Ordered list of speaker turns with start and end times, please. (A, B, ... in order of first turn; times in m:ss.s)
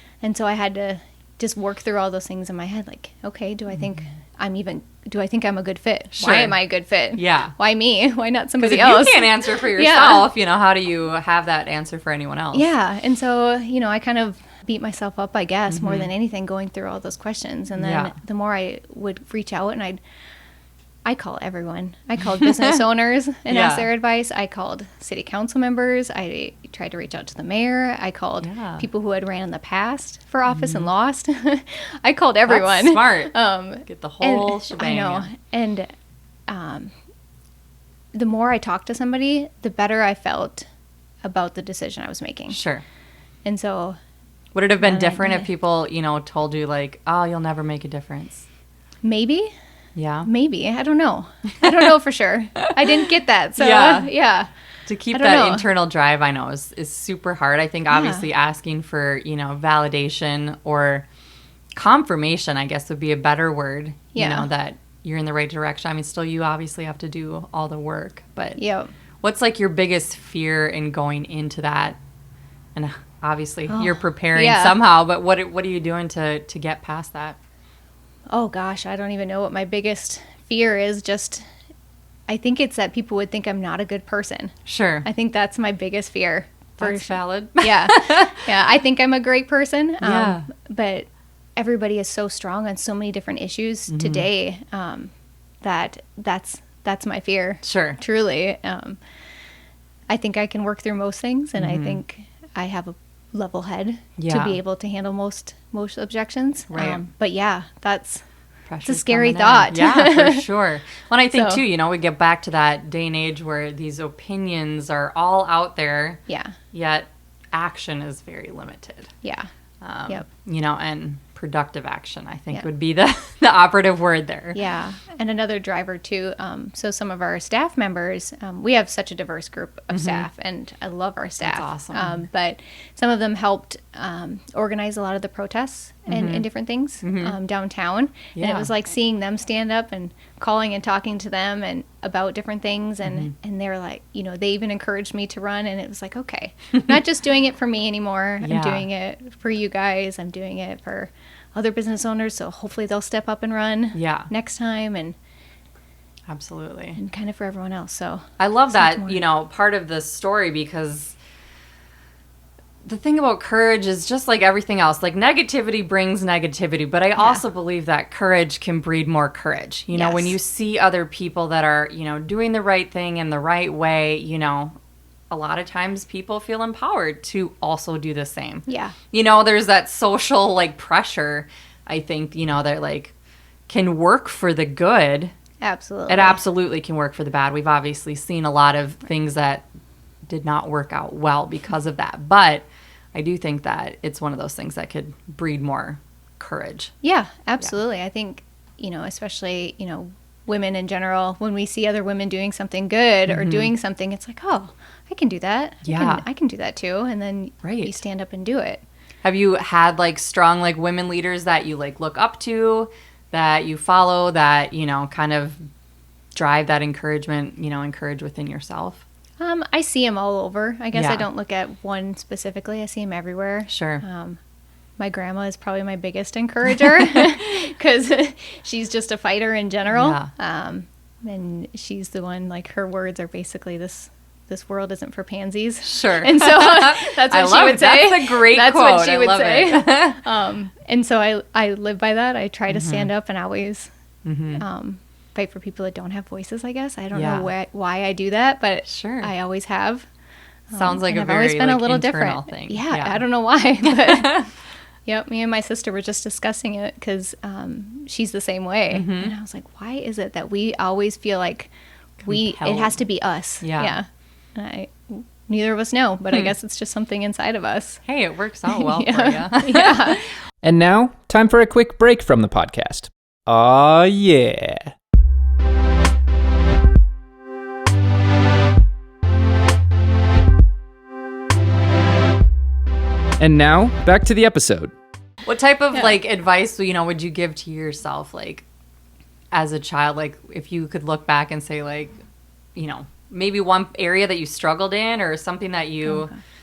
0:00.2-0:10.3 A
0:06.1-0:06.6 B
0:07.1-0:07.5 B
0:08.6-0:12.7 B
0:12.5-0:20.0 A
0:15.7-0:16.1 B
0:17.8-0:18.1 B
0:21.0-0:35.9 A
0:22.4-0:22.8 B
0:23.5-0:23.9 B
0:28.4-0:28.8 B
0:30.5-0:30.9 B
0:32.5-0:33.3 B
0:33.8-0:35.3 B
0:36.5-0:36.9 A
0:38.1-0:40.7 A
0:41.2-0:42.6 A
0:42.5-0:42.8 B
0:43.4-0:44.0 A
0:44.5-0:48.4 B
0:44.8-0:45.5 A
0:49.0-0:49.5 A
0:50.0-0:50.3 B
0:50.2-0:54.5 A
0:52.6-0:54.1 B
0:54.8-1:01.0 B
0:55.1-0:55.6 A
0:57.9-0:58.2 A
1:01.8-1:08.6 B
1:04.1-1:04.5 A
1:08.6-1:08.9 A
1:09.2-1:12.0 B
1:12.7-1:17.4 B
1:13.7-1:14.8 A
1:18.3-1:21.4 A
1:22.3-1:35.1 A
1:24.6-1:25.1 B
1:26.8-1:28.3 B
1:30.0-1:30.5 B
1:33.9-1:34.3 B
1:35.6-1:39.0 A
1:37.6-1:38.0 B
1:40.1-1:48.2 A
1:41.6-1:42.0 B
1:44.2-1:44.6 B
1:46.7-1:47.0 B
1:48.7-1:59.1 B
1:48.8-1:50.5 A
1:51.3-1:51.6 A
1:56.3-1:56.6 A
1:59.2-1:59.5 A
1:59.8-2:04.6 B
2:04.5-2:35.1 A
2:09.9-2:10.3 B
2:11.4-2:12.2 B
2:16.1-2:16.5 B
2:17.0-2:17.4 B
2:18.4-2:18.7 B
2:23.0-2:23.3 B
2:28.4-2:28.9 B
2:33.9-2:34.3 B
2:36.3-2:37.0 B
2:37.0-2:39.2 A
2:38.4-2:41.2 B
2:42.8-2:54.7 B
2:47.2-2:47.4 A
2:49.9-2:50.4 A
2:55.3-3:03.1 B
2:58.7-2:58.9 A
3:03.7-3:05.3 B
3:05.6-3:06.4 A
3:06.1-3:09.6 B
3:10.3-3:16.9 B
3:17.0-3:28.8 A
3:23.3-3:23.7 B
3:25.8-3:26.2 B
3:27.6-3:28.0 B
3:29.2-3:35.6 B
3:36.3-3:39.0 B
3:39.4-3:44.4 A
3:40.9-3:41.2 B
3:43.7-3:44.0 B
3:45.0-4:03.9 A
3:46.9-3:47.3 B
3:49.9-3:50.3 B
3:55.8-4:00.2 B
4:02.7-4:03.1 B
4:04.2-4:04.6 B
4:04.6-4:10.1 A
4:07.1-4:07.5 B
4:08.9-4:09.3 B
4:10.7-4:14.5 A
4:10.7-4:13.2 B
4:13.8-4:14.5 B
4:15.0-4:21.7 A
4:18.9-4:19.3 B
4:22.2-4:23.0 B
4:22.3-4:28.0 A
4:23.6-4:24.0 B
4:28.0-4:30.2 B
4:28.7-4:30.2 A
4:30.6-4:34.9 C
4:43.4-4:44.9 C
4:45.4-4:48.6 B
4:49.5-4:52.2 B
4:52.8-4:56.3 B
4:56.0-4:56.4 A